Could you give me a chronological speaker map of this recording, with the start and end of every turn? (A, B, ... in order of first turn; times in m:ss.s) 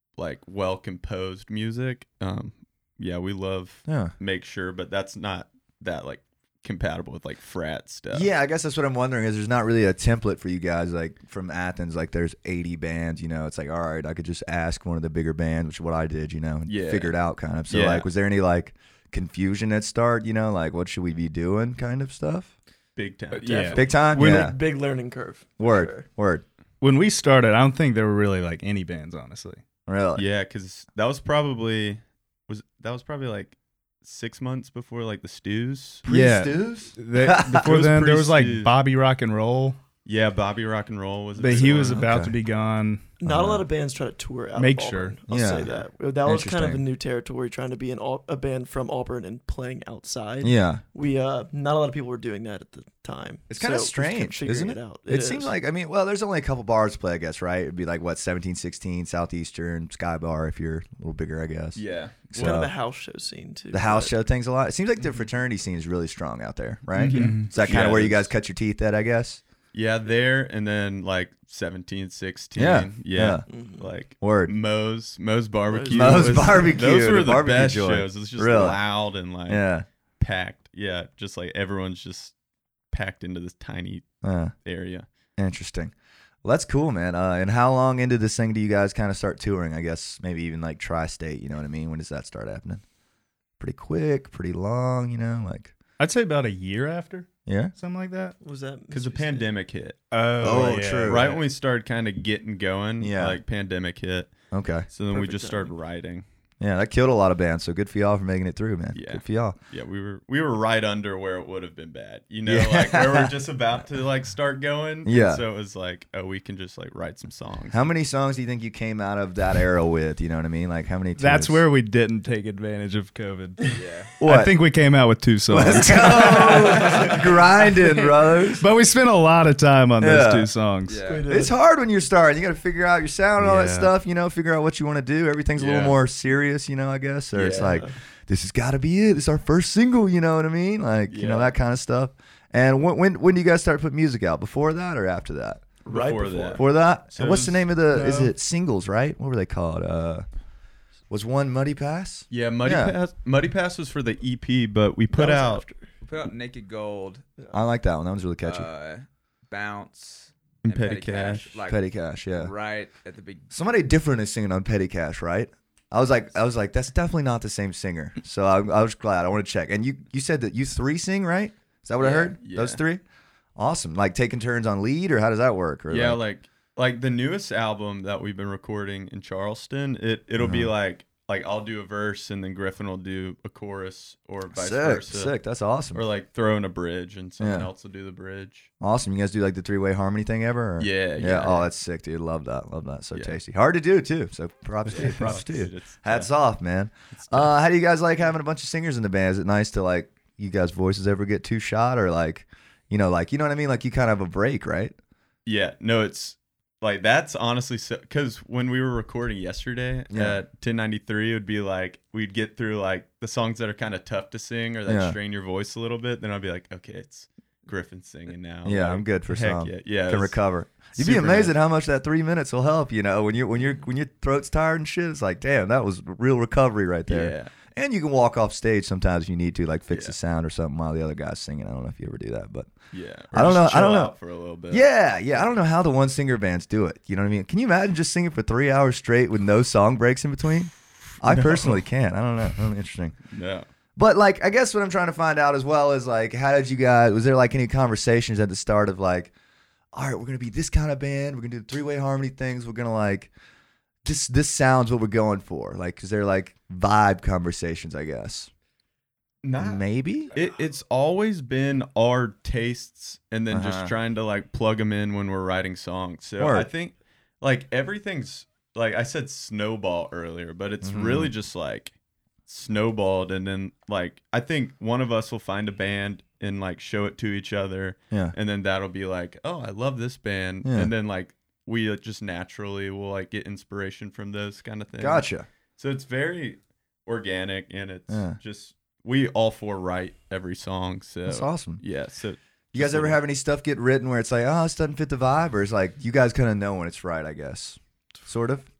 0:00.2-0:08.3 A
0:03.9-0:04.1 B
0:08.1-0:22.5 B
0:16.6-0:18.1 A
0:23.0-0:23.7 A
0:23.3-0:24.5 C
0:23.4-0:26.0 D
0:23.7-0:24.6 B
0:25.6-0:26.4 B
0:26.8-0:29.6 C
0:29.9-0:30.2 B
0:30.2-0:36.0 A
0:36.0-0:37.7 B
0:36.1-0:39.8 C
0:37.5-0:38.7 A
0:40.0-0:42.0 A
0:41.4-0:43.0 C
0:41.6-0:42.4 B
0:43.2-0:55.5 D
0:43.2-0:43.6 B
0:44.6-0:45.2 C
0:45.3-0:45.7 B
0:46.2-0:46.8 B
0:50.4-0:50.8 B
0:53.5-1:02.7 B
1:01.7-1:02.6 A
1:02.3-1:04.2 D
1:03.7-1:09.4 B
1:07.0-1:07.5 C
1:07.1-1:08.3 A
1:09.7-1:19.6 A
1:12.6-1:13.4 B
1:13.5-1:13.9 D
1:14.2-1:14.5 B
1:15.7-1:16.8 D
1:15.9-1:18.8 B
1:19.5-1:19.8 B
1:20.2-1:22.3 A
1:22.9-1:24.0 A
1:24.2-1:24.5 B
1:24.6-1:25.0 A
1:25.4-1:25.9 B
1:26.4-1:32.8 B
1:33.6-1:35.7 B
1:36.0-1:38.3 C
1:37.4-1:37.7 B
1:38.4-1:39.5 D
1:38.9-1:44.3 A
1:40.1-1:41.4 C
1:40.4-1:41.4 B
1:43.0-1:43.4 B
1:44.5-1:44.9 B
1:44.9-1:46.2 A
1:45.1-1:45.7 D
1:46.6-1:49.6 B
1:48.9-1:57.9 A
1:52.4-1:53.3 B
1:55.0-1:55.4 B
1:57.7-2:01.6 B
2:01.2-2:06.6 C
2:03.7-2:04.2 E
2:04.2-2:04.5 B
2:05.5-2:08.6 B
2:06.5-2:07.2 E
2:08.5-2:11.0 C
2:10.0-2:10.5 B
2:10.9-2:11.3 E
2:11.0-2:11.5 D
2:11.3-2:25.6 B
2:13.4-2:13.9 C
2:15.6-2:15.9 E
2:17.3-2:17.8 A
2:17.6-2:17.9 D
2:21.1-2:21.5 A
2:25.8-2:26.6 A
2:25.8-2:26.6 D
2:26.6-2:30.2 B
2:27.1-2:27.7 A
2:28.0-2:28.2 C
2:31.1-2:32.9 B
2:32.3-2:35.6 A
2:35.1-2:35.9 D
2:36.0-2:37.2 E
2:37.5-2:38.7 B
2:38.4-2:41.8 E
2:40.6-2:41.6 A
2:41.7-2:42.5 B
2:42.4-2:43.5 E
2:43.5-2:53.0 B
2:52.0-2:52.3 E
2:52.4-2:52.8 A
2:53.6-2:56.2 B
2:55.9-3:05.3 A
3:00.4-3:00.7 B
3:04.5-3:06.0 B
3:05.9-3:08.7 A
3:07.4-3:07.7 B
3:08.8-3:24.9 B
3:10.8-3:11.7 A
3:14.9-3:16.3 A
3:25.4-3:41.6 A
3:30.1-3:30.4 B
3:34.9-3:35.2 B
3:38.6-3:52.7 B
3:47.1-3:47.5 A
3:52.9-3:54.8 A
3:53.3-3:54.1 B
3:54.7-4:03.2 B
4:01.2-4:01.8 A
4:03.3-4:03.6 A
4:04.0-4:09.3 B
4:09.9-4:13.3 B
4:14.0-4:18.5 B
4:19.4-4:31.9 A
4:19.6-4:20.3 B
4:23.5-4:23.9 B
4:26.4-4:26.7 B
4:30.8-4:31.3 B
4:32.5-4:53.2 A
4:40.6-4:40.9 B
4:45.0-4:45.5 B
4:48.1-4:48.4 B
4:51.2-4:51.8 B
4:52.7-4:58.7 B